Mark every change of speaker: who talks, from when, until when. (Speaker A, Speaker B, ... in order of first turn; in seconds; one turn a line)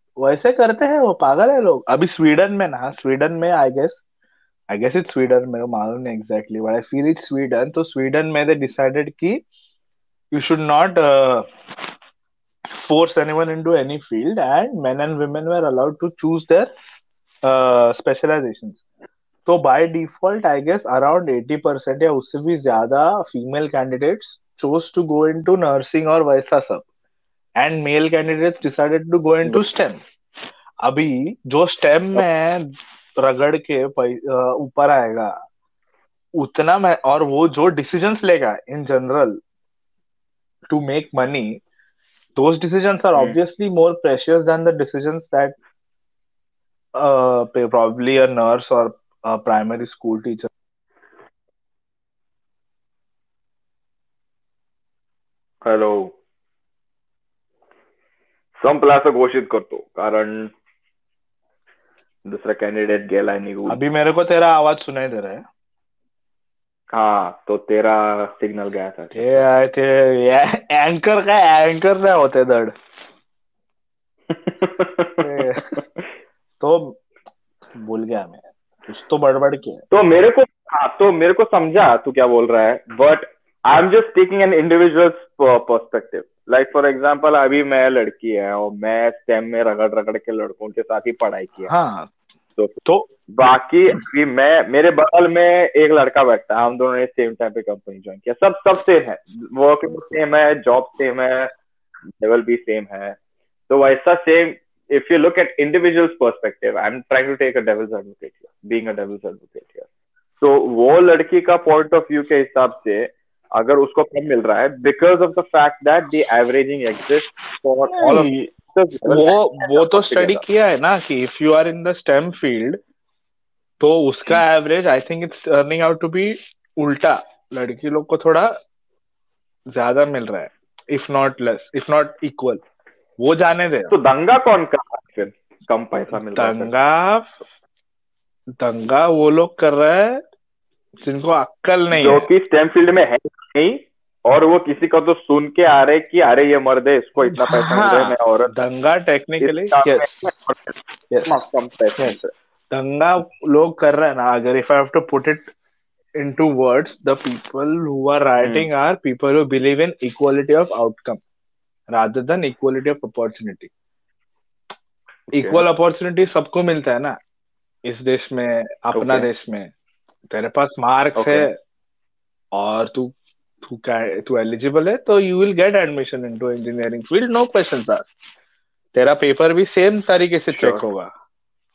Speaker A: 0.2-4.0
Speaker A: 4.7-9.4
Speaker A: 10.3-11.5
Speaker A: 12.7-16.7
Speaker A: 17.4-18.8
Speaker A: 19.5-26.8
Speaker A: 27.6-30.0
Speaker A: 30.8-35.3
Speaker A: 36.4-39.4
Speaker A: 40.7-41.6
Speaker A: 42.4-45.6
Speaker A: 47.0-50.5
Speaker B: 55.6-56.1
Speaker B: 58.6-60.5
Speaker B: 62.3-63.8
Speaker A: 63.7-65.4
Speaker B: 66.9-69.5
Speaker A: 69.1-72.7
Speaker B: 74.3-75.3
Speaker A: 75.2-75.7
Speaker A: 76.6-77.0
Speaker A: 77.8-79.8
Speaker B: 79.9-91.7
Speaker A: 91.7-92.1
Speaker B: 92.6-101.5
Speaker B: 102.1-103.2
Speaker B: 103.7-109.9
Speaker B: 110.4-120.4
Speaker A: 117.9-118.5
Speaker A: 119.1-122.8
Speaker A: 123.8-128.6
Speaker A: 129.7-132.6
Speaker A: 133.2-133.9
Speaker B: 133.9-136.7
Speaker A: 136.2-137.4
Speaker A: 138.6-140.2
Speaker A: 141.0-142.3
Speaker B: 141.9-148.5
Speaker A: 147.3-150.3
Speaker B: 149.4-152.2
Speaker A: 151.1-151.4
Speaker A: 152.0-155.5
Speaker A: 156.2-161.2
Speaker B: 158.4-158.7
Speaker A: 161.9-163.7
Speaker B: 165.3-165.6
Speaker A: 165.3-167.2
Speaker A: 167.8-169.7
Speaker B: 168.9-169.3
Speaker A: 170.3-171.6
Speaker B: 171.2-171.5
Speaker A: 172.6-178.1
Speaker A: 178.9-181.1
Speaker B: 180.6-180.8